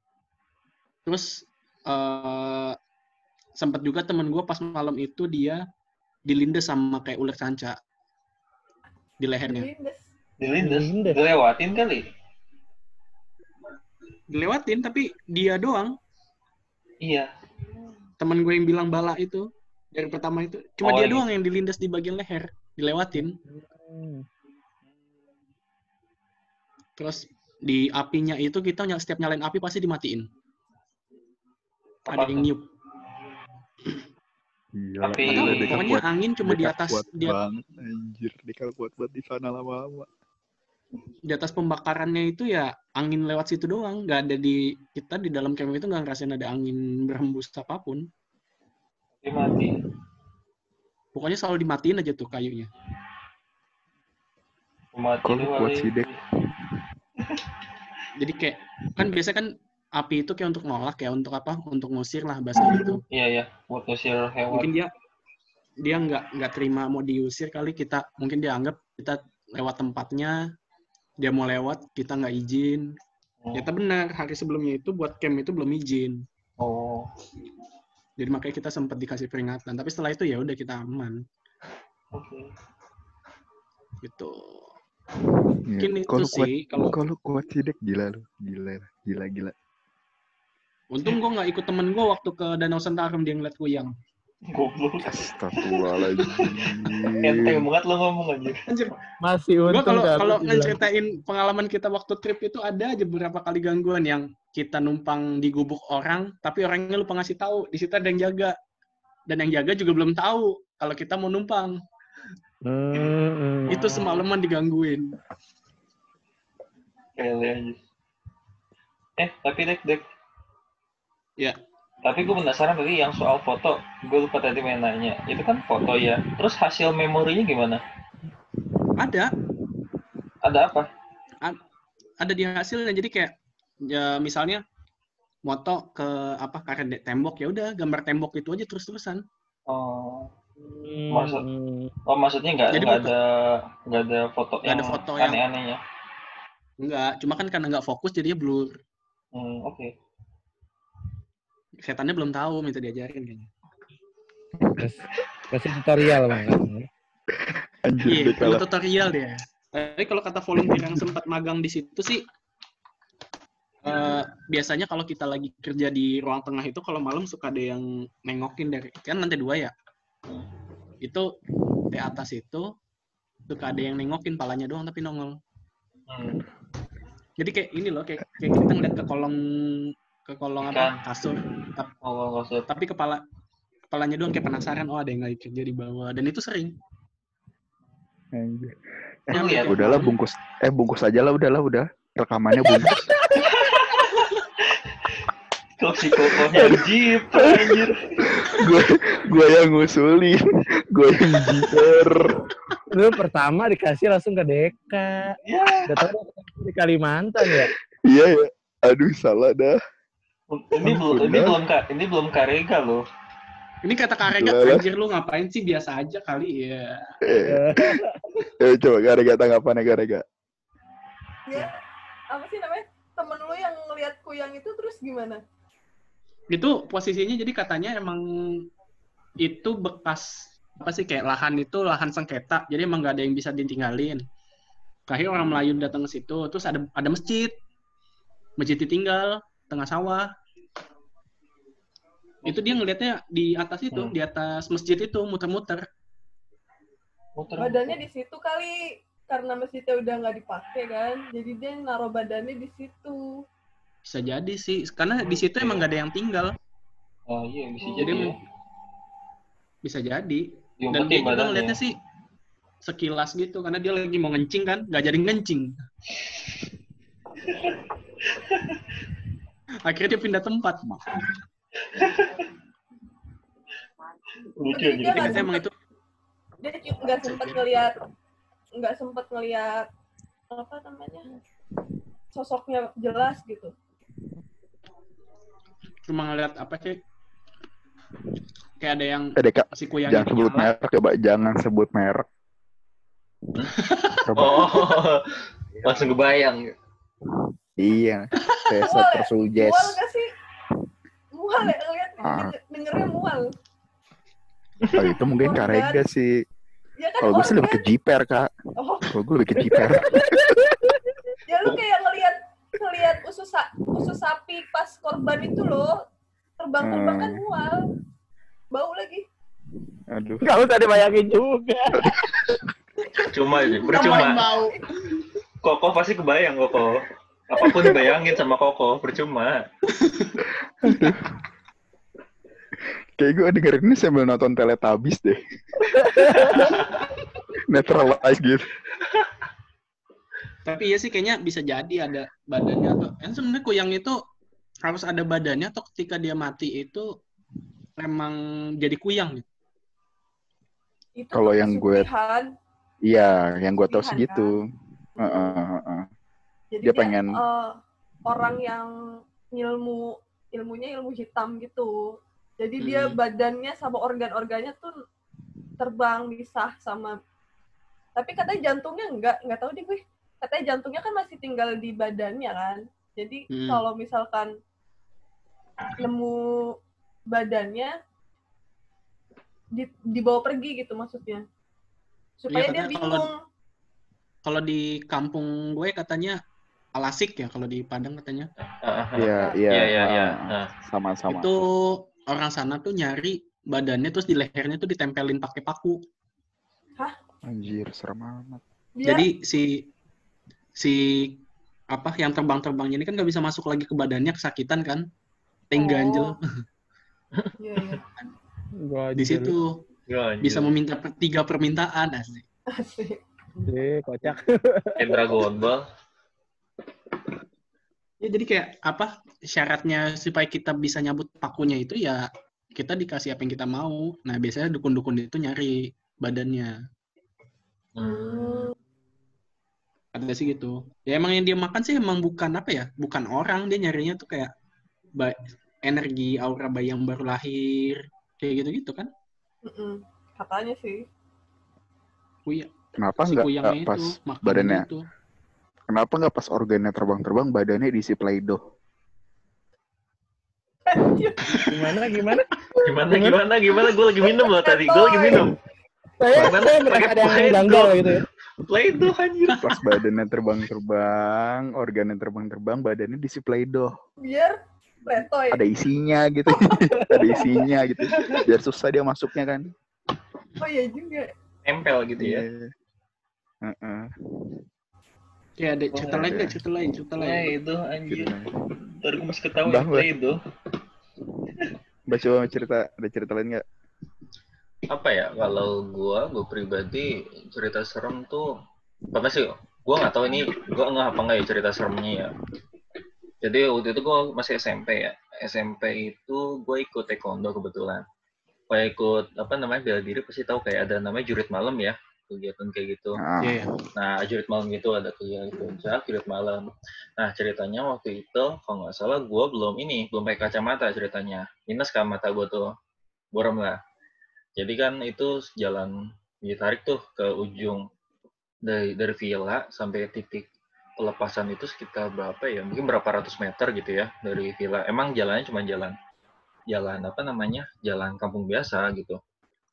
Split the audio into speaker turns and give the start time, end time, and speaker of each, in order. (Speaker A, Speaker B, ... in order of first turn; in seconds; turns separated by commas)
Speaker A: 1.1-2.8, Speaker A: 3.6-5.6, Speaker A: 6.3-7.8, Speaker A: 9.2-9.7, Speaker B: 9.4-10.0, Speaker C: 10.4-12.1, Speaker D: 10.6-11.2, Speaker A: 14.3-16.0, Speaker C: 17.0-17.3, Speaker A: 18.2-23.4, Speaker C: 20.8-21.3, Speaker D: 23.5-24.2, Speaker A: 27.0-30.3, Speaker C: 32.1-32.5, Speaker A: 32.1-32.7, Speaker E: 34.7-40.1, Speaker C: 35.0-36.0, Speaker A: 35.2-37.4, Speaker A: 41.3-48.1, Speaker C: 49.2-49.8, Speaker A: 51.1-52.7, Speaker C: 54.9-56.2, Speaker E: 55.2-56.8, Speaker C: 57.2-57.5, Speaker A: 58.2-63.0, Speaker C: 63.1-64.7, Speaker A: 64.5-64.9, Speaker A: 65.8-70.4, Speaker A: 71.2-72.9, Speaker C: 73.4-73.7, Speaker A: 73.5-76.2, Speaker C: 76.6-77.1, Speaker A: 78.2-81.2, Speaker C: 82.1-82.5, Speaker A: 84.0-84.7, Speaker E: 85.5-89.5, Speaker A: 85.8-87.0, Speaker A: 90.9-93.9, Speaker C: 94.5-98.6, Speaker E: 95.0-97.7, Speaker A: 98.7-98.9, Speaker D: 99.2-100.8, Speaker A: 99.7-108.5, Speaker A: 109.3-111.8, Speaker D: 112.6-114.2, Speaker A: 113.7-115.2, Speaker C: 113.7-114.0, Speaker C: 117.2-117.8, Speaker C: 119.2-120.0, Speaker C: 122.0-127.8, Speaker A: 129.0-129.3, Speaker C: 130.4-130.9, Speaker A: 132.2-133.3, Speaker A: 133.9-134.6, Speaker A: 135.5-139.2, Speaker C: 139.7-140.3, Speaker D: 140.6-141.9, Speaker C: 141.1-141.4, Speaker C: 142.1-145.8, Speaker A: 142.7-143.1, Speaker A: 144.7-145.4, Speaker A: 146.8-148.8, Speaker C: 149.3-149.9, Speaker A: 151.8-153.5, Speaker E: 154.6-154.9, Speaker D: 154.8-156.9, Speaker E: 157.3-158.6, Speaker A: 158.1-162.2, Speaker E: 160.6-161.1, Speaker A: 163.8-169.7, Speaker A: 171.0-171.3, Speaker A: 171.9-172.7, Speaker A: 173.5-175.4, Speaker C: 176.1-176.5, Speaker A: 177.4-181.9, Speaker C: 180.6-181.0, Speaker C: 182.0-182.7, Speaker A: 182.7-183.2, Speaker A: 183.9-186.8, Speaker E: 188.3-193.2, Speaker C: 189.3-190.0, Speaker A: 189.3-190.2, Speaker C: 193.5-195.2, Speaker C: 195.8-198.7, Speaker E: 196.3-202.5, Speaker D: 202.9-207.7, Speaker C: 205.5-206.0, Speaker E: 207.4-209.8, Speaker C: 210.5-213.0, Speaker E: 210.8-211.6, Speaker A: 213.8-217.2, Speaker E: 214.2-214.8, Speaker E: 217.2-220.2, Speaker D: 217.4-218.3, Speaker B: 221.5-221.8, Speaker B: 222.3-225.4, Speaker A: 226.5-228.7, Speaker A: 229.4-234.2, Speaker A: 235.1-237.6, Speaker A: 238.6-240.3, Speaker A: 242.4-245.9, Speaker C: 247.4-248.0, Speaker B: 247.6-253.4, Speaker A: 254.1-256.6, Speaker C: 255.2-255.8, Speaker C: 257.3-258.4, Speaker B: 257.8-258.2, Speaker A: 258.0-258.4, Speaker A: 259.8-262.0, Speaker C: 260.8-261.8, Speaker A: 262.8-265.7, Speaker C: 267.4-269.0, Speaker A: 269.9-271.2, Speaker E: 270.9-271.3, Speaker C: 271.9-272.5, Speaker C: 274.6-275.4, Speaker B: 274.7-275.6, Speaker A: 275.1-275.7, Speaker B: 276.6-278.0, Speaker B: 278.8-279.9, Speaker B: 280.5-281.3, Speaker B: 282.3-283.7, Speaker A: 286.1-287.0, Speaker A: 288.8-290.7, Speaker E: 289.4-292.2, Speaker A: 293.8-294.2, Speaker E: 294.2-295.0, Speaker C: 294.4-296.7, Speaker E: 295.7-296.2, Speaker E: 297.2-300.0, Speaker B: 298.8-300.3, Speaker B: 301.4-303.5, Speaker E: 301.6-302.6, Speaker E: 304.9-306.3, Speaker B: 305.0-306.0, Speaker B: 307.0-307.9, Speaker E: 307.2-308.5, Speaker B: 308.8-309.2, Speaker E: 309.1-310.3, Speaker D: 309.8-311.2, Speaker B: 311.5-315.9, Speaker B: 316.6-317.9, Speaker E: 316.8-317.4, Speaker B: 318.7-319.3, Speaker E: 320.1-320.5, Speaker D: 320.4-322.4, Speaker E: 322.0-322.6, Speaker B: 323.0-324.8, Speaker C: 323.3-324.5, Speaker A: 323.8-324.8, Speaker C: 325.6-329.6, Speaker B: 327.6-328.2, Speaker A: 330.0-330.4, Speaker E: 330.4-331.4, Speaker E: 332.8-336.7, Speaker D: 336.2-336.6, Speaker C: 336.4-337.0, Speaker E: 337.5-338.7, Speaker A: 340.7-344.2, Speaker A: 344.9-347.1, Speaker A: 348.0-349.4, Speaker B: 351.2-352.5, Speaker E: 351.3-352.1, Speaker E: 353.1-354.7, Speaker B: 353.9-354.6, Speaker E: 355.2-356.1, Speaker B: 355.2-355.6, Speaker B: 356.7-357.7, Speaker E: 356.8-357.4, Speaker B: 358.3-358.9, Speaker B: 359.5-361.9, Speaker B: 362.6-364.9, Speaker A: 362.8-363.2, Speaker B: 365.8-367.1, Speaker B: 368.2-374.5, Speaker A: 373.5-373.9, Speaker B: 375.9-376.4, Speaker B: 377.3-377.9, Speaker B: 379.7-381.4, Speaker B: 382.4-383.4, Speaker A: 382.5-383.3, Speaker A: 384.4-386.4, Speaker A: 386.9-388.5, Speaker C: 388.7-390.7, Speaker E: 389.2-391.7, Speaker A: 391.3-396.0, Speaker E: 397.5-398.6, Speaker B: 399.0-399.2, Speaker A: 399.0-399.9, Speaker A: 400.8-405.1, Speaker A: 405.7-406.4, Speaker B: 405.8-406.4, Speaker C: 407.4-408.0, Speaker B: 407.6-408.0, Speaker D: 408.8-409.6, Speaker A: 409.1-409.8, Speaker C: 410.1-410.7, Speaker A: 410.4-412.4, Speaker B: 412.7-413.2, Speaker D: 413.6-415.2, Speaker C: 415.0-415.9, Speaker A: 418.2-426.8, Speaker C: 428.0-428.7, Speaker B: 428.0-428.7, Speaker A: 430.1-434.5, Speaker A: 435.2-439.1, Speaker B: 439.6-441.1, Speaker A: 442.5-445.1, Speaker E: 443.0-444.9, Speaker E: 445.9-448.6, Speaker B: 450.9-451.9, Speaker D: 451.6-452.5, Speaker C: 452.8-455.6, Speaker B: 453.7-455.6, Speaker D: 456.2-458.2, Speaker E: 456.3-456.6, Speaker C: 456.3-459.8, Speaker E: 459.6-464.0, Speaker B: 464.2-465.6, Speaker E: 465.5-469.7, Speaker B: 466.5-467.7, Speaker B: 470.6-471.3, Speaker C: 471.7-472.5, Speaker E: 472.2-472.7, Speaker E: 473.6-474.6, Speaker A: 475.6-477.5, Speaker C: 475.9-476.4, Speaker E: 476.1-476.6, Speaker C: 477.2-478.3, Speaker E: 478.1-479.0, Speaker C: 479.0-480.4, Speaker E: 479.7-480.1, Speaker E: 482.1-483.6, Speaker C: 484.9-488.5, Speaker C: 489.1-492.4, Speaker C: 493.4-498.1, Speaker C: 498.7-503.2, Speaker E: 503.2-503.7, Speaker A: 503.4-503.7, Speaker C: 503.9-506.6, Speaker C: 507.2-512.7, Speaker C: 513.3-513.8, Speaker C: 514.6-517.8, Speaker C: 518.7-520.5, Speaker C: 521.0-526.0, Speaker C: 526.7-529.2